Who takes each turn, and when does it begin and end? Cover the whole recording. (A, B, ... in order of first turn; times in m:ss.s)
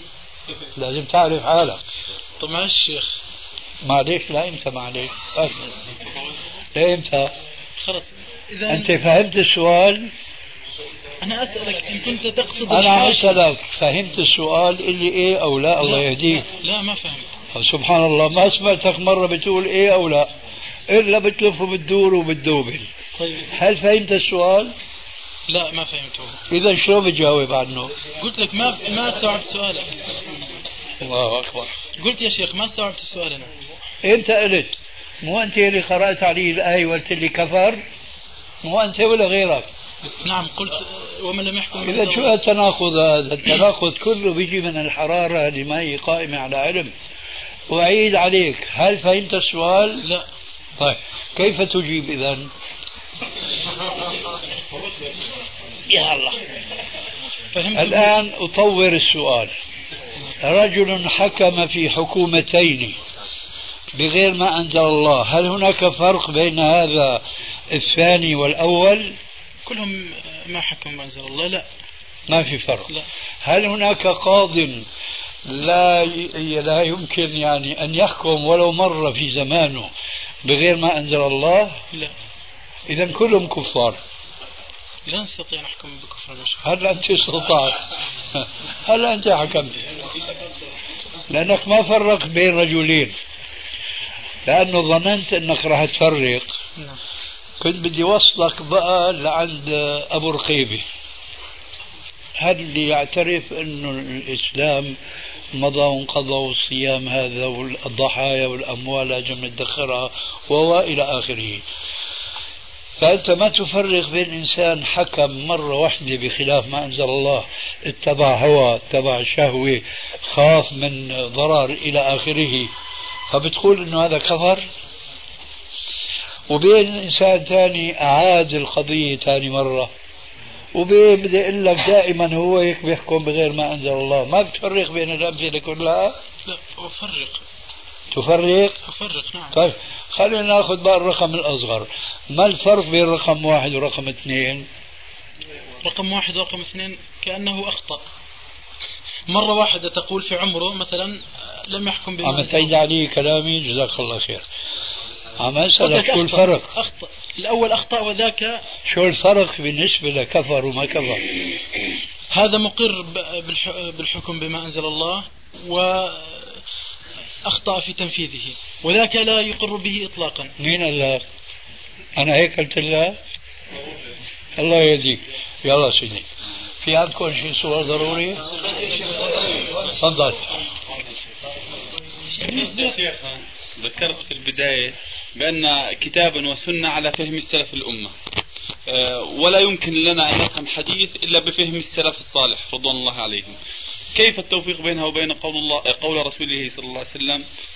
0:00.8-0:01.8 A
0:02.4-0:03.1 B
0:03.8-0:05.7 A
0:06.8-0:07.3 A
0:07.8-0:09.0 B
0:08.7-0:10.1 A
0:11.2-0:13.4 B
0:12.7-0:16.4 A
0:15.8-0:17.3 B
0:17.5-0:20.3 A
0:20.9-0:22.9 A
0:23.2-0:23.5 B
0:23.5-0:24.7 A
0:25.5-0:26.4 B
0:26.5-0:27.9 A
0:28.2-0:29.9 B
0:31.0-0:31.8 A
0:32.0-0:33.5 B
0:34.0-0:37.8 A
0:38.6-0:39.7 A
0:40.2-0:42.3 B
0:41.8-0:46.9 A
0:47.7-0:50.0 A
0:50.8-0:52.5 A
0:55.9-0:56.4 A
0:57.5-0:58.1 B
0:57.8-0:59.5 A
1:00.4-1:03.0 A
1:04.0-1:09.2 A
1:09.7-1:11.7 B
1:12.3-1:12.9 A
1:13.4-1:14.9 A
1:15.5-1:19.9 A
1:20.4-1:21.8 A
1:22.9-1:24.0 A
1:25.1-1:26.6 B
1:26.6-1:27.8 A
1:28.4-1:29.8 A
1:31.3-1:33.2 A
1:34.5-1:36.5 A
1:37.6-1:40.8 A
1:42.4-1:45.0 A
1:45.6-1:51.6 A
1:53.0-2:02.7 A
2:03.3-2:04.6 A
2:06.5-2:09.9 A
2:10.8-2:16.2 A
2:16.5-2:17.4 B
2:18.1-2:18.8 A
2:18.9-2:19.6 B
2:19.5-2:24.7 A
2:25.8-2:28.0 B
2:29.3-2:32.7 B
2:32.2-2:34.4 A
2:35.4-2:36.7 A
2:35.8-2:38.6 B
2:38.9-2:41.2 A
2:42.3-2:46.6 B
2:47.5-2:50.5 B
2:50.6-2:51.2 A
2:52.2-2:53.2 A
2:54.6-2:56.3 A
2:56.8-2:58.5 A
2:59.9-3:00.5 A
3:02.5-3:08.1 C
3:08.9-3:13.6 C
3:14.1-3:17.4 C